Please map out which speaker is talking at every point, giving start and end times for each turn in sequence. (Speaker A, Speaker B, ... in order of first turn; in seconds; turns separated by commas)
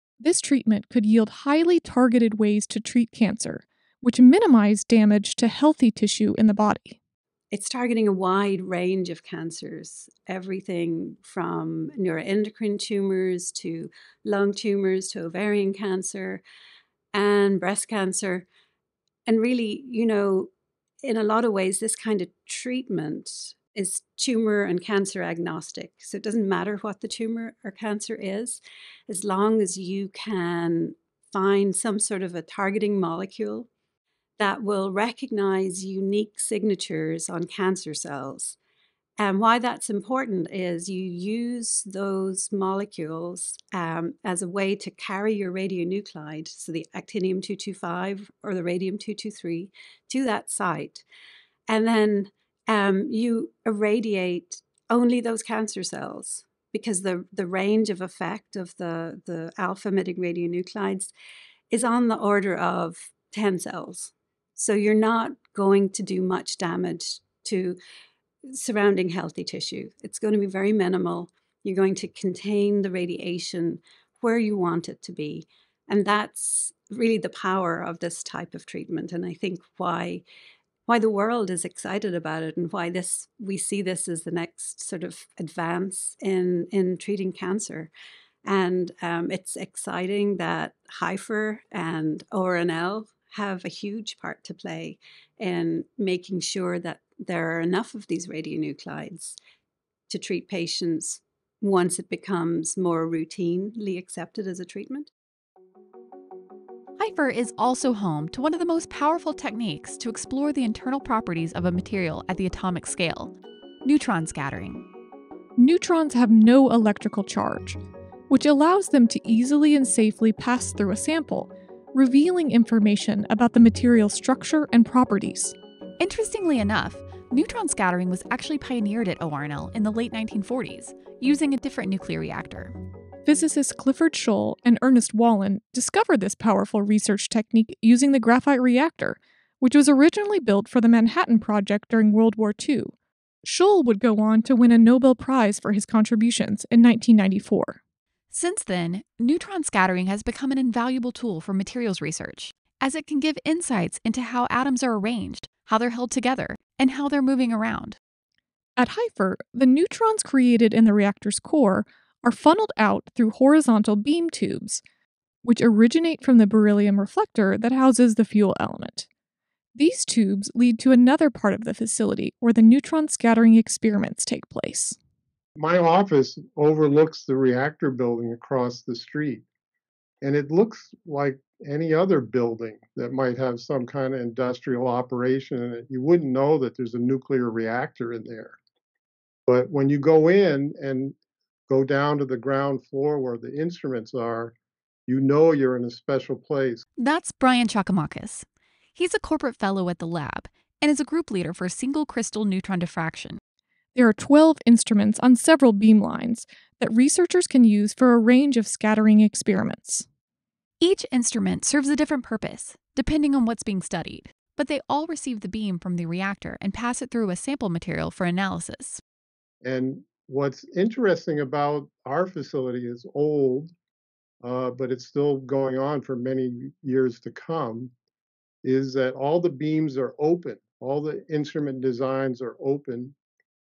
Speaker A: 0.2-7.0, Speaker B: 7.5-16.4, Speaker B: 17.1-18.4, Speaker B: 19.3-20.5, Speaker B: 21.0-33.7, Speaker B: 34.4-38.6, Speaker B: 39.2-51.0, Speaker B: 51.7-61.1, Speaker B: 61.7-67.8, Speaker B: 68.5-80.2, Speaker B: 80.9-87.9, Speaker B: 88.5-99.4, Speaker B: 100.1-105.1, Speaker C: 107.0-114.9, Speaker A: 115.6-125.5, Speaker C: 126.0-132.7, Speaker A: 133.2-142.9, Speaker A: 143.4-147.8, Speaker C: 148.3-158.0, Speaker A: 158.8-164.8, Speaker A: 165.4-169.1, Speaker A: 169.7-174.9, Speaker D: 175.6-179.4, Speaker D: 180.2-188.6, Speaker D: 189.5-191.2, Speaker D: 191.7-194.5, Speaker D: 195.1-196.8, Speaker C: 197.0-203.4, Speaker A: 203.9-210.0, Speaker C: 210.8-219.0, Speaker D: 219.6-223.7, Speaker D: 224.4-227.9, Speaker D: 228.6-233.1